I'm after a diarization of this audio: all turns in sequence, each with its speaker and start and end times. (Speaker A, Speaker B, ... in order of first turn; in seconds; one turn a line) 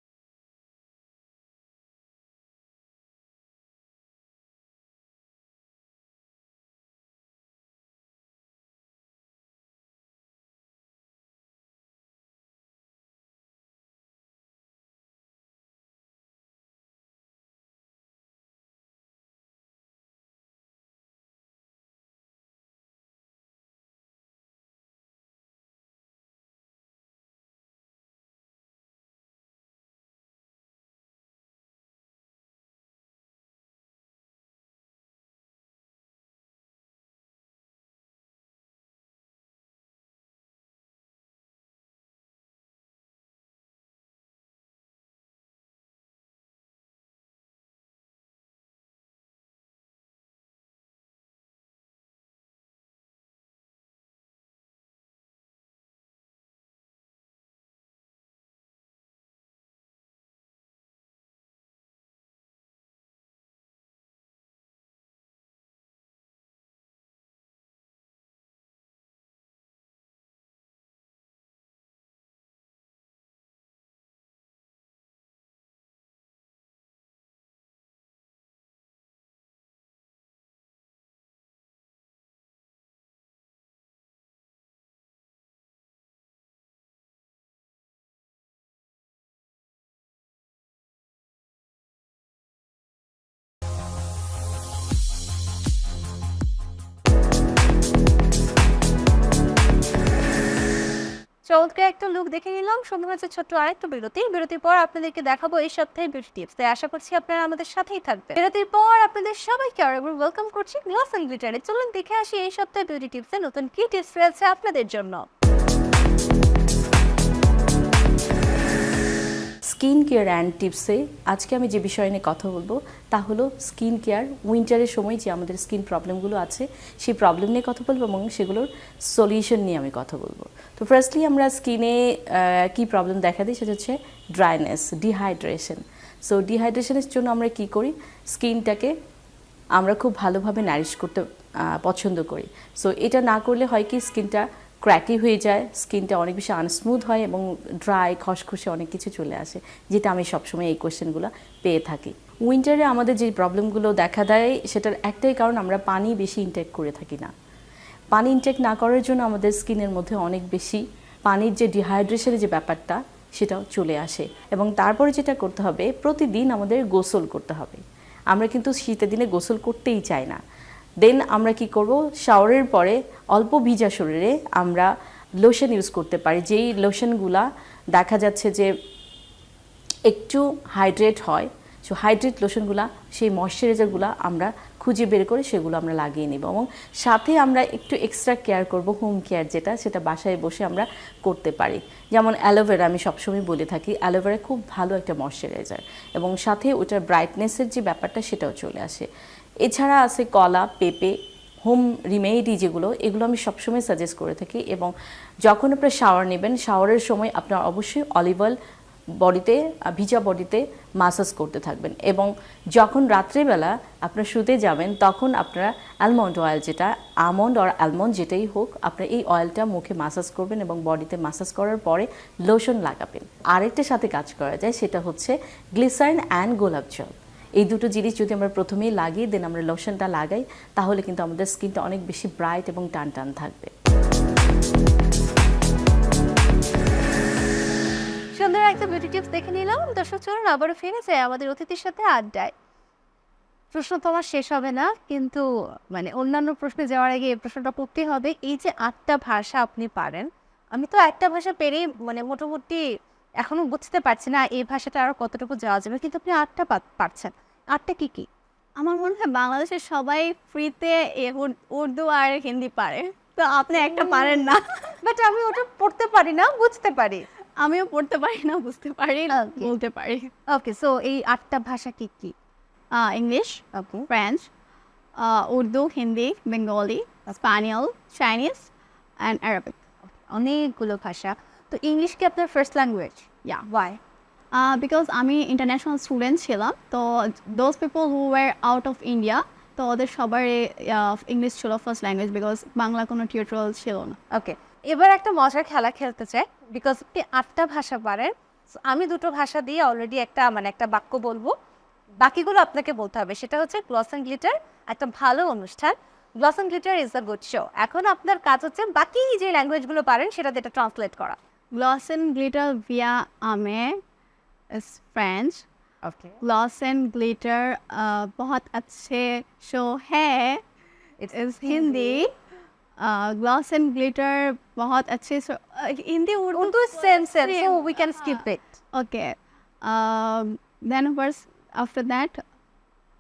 Speaker A: 101.5-115.2
Speaker B: 119.7-138.9
Speaker B: 139.8-157.3
Speaker B: 158.1-170.4
Speaker B: 171.0-174.9
Speaker B: 175.4-178.7
Speaker B: 180.1-199.1
Speaker B: 199.6-204.9
Speaker B: 205.4-208.5
Speaker B: 209.2-233.7
Speaker A: 238.3-242.5
Speaker A: 243.7-252.8
Speaker A: 253.4-258.3
Speaker C: 258.8-264.6
Speaker A: 263.7-267.2
Speaker C: 267.6-270.3
Speaker A: 269.3-269.7
Speaker A: 270.5-272.3
Speaker C: 272.9-274.5
Speaker A: 273.8-274.1
Speaker C: 275.2-278.7
Speaker C: 279.2-279.8
Speaker A: 280.3-284.0
Speaker C: 284.6-294.2
Speaker A: 294.3-298.3
Speaker A: 298.9-301.5
Speaker A: 302.2-311.4
Speaker C: 311.8-313.9
Speaker C: 314.7-315.6
Speaker A: 316.0-316.4
Speaker C: 316.4-320.6
Speaker A: 321.2-322.2
Speaker C: 321.3-322.3
Speaker C: 323.0-328.4
Speaker A: 326.5-328.6
Speaker C: 328.9-332.4